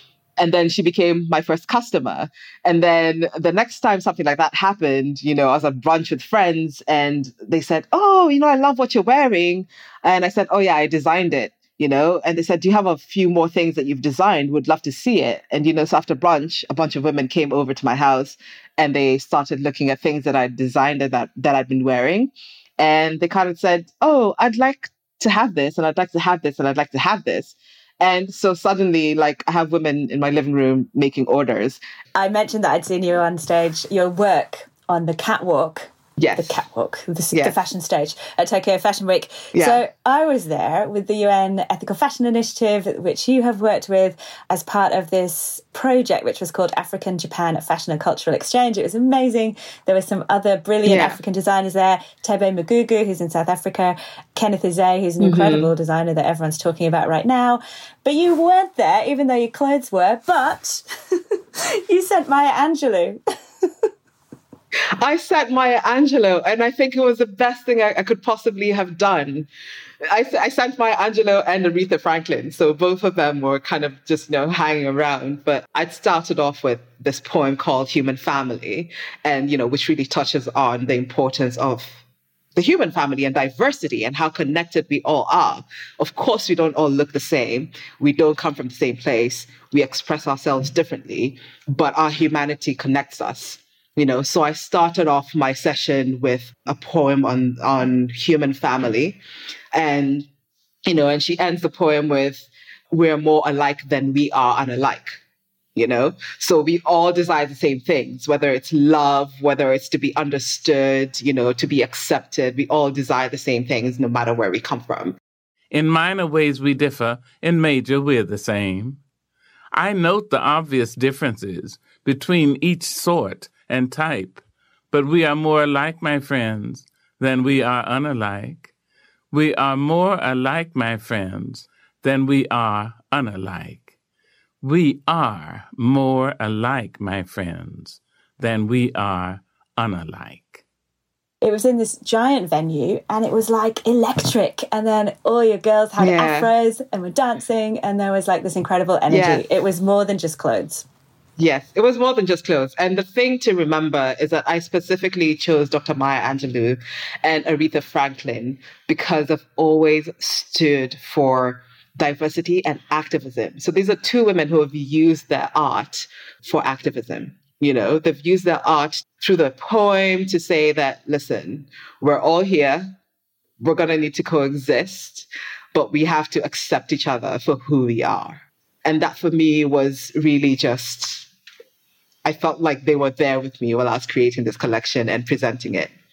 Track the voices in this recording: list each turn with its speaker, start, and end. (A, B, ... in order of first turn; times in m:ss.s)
0:00.4-0:31.8 A
0:32.1-1:00.8 B
0:36.2-0:36.6 A
0:39.5-0:39.8 A
0:50.8-0:51.2 A
0:55.2-0:55.7 A
1:01.6-1:03.7 B
1:05.0-1:09.5 A
1:10.1-1:22.0 A
1:22.5-1:39.2 A
1:39.7-1:40.3 A
1:40.8-1:45.2 A
1:45.7-1:55.2 A
1:55.7-1:59.0 C
1:59.7-2:08.7 C
2:09.3-2:13.9 C
2:14.6-2:20.6 C
2:21.4-2:30.8 B
2:26.0-2:26.5 A
2:29.1-2:29.4 A
2:31.4-2:52.9 A
2:53.6-3:01.3 A
3:02.2-3:05.9 A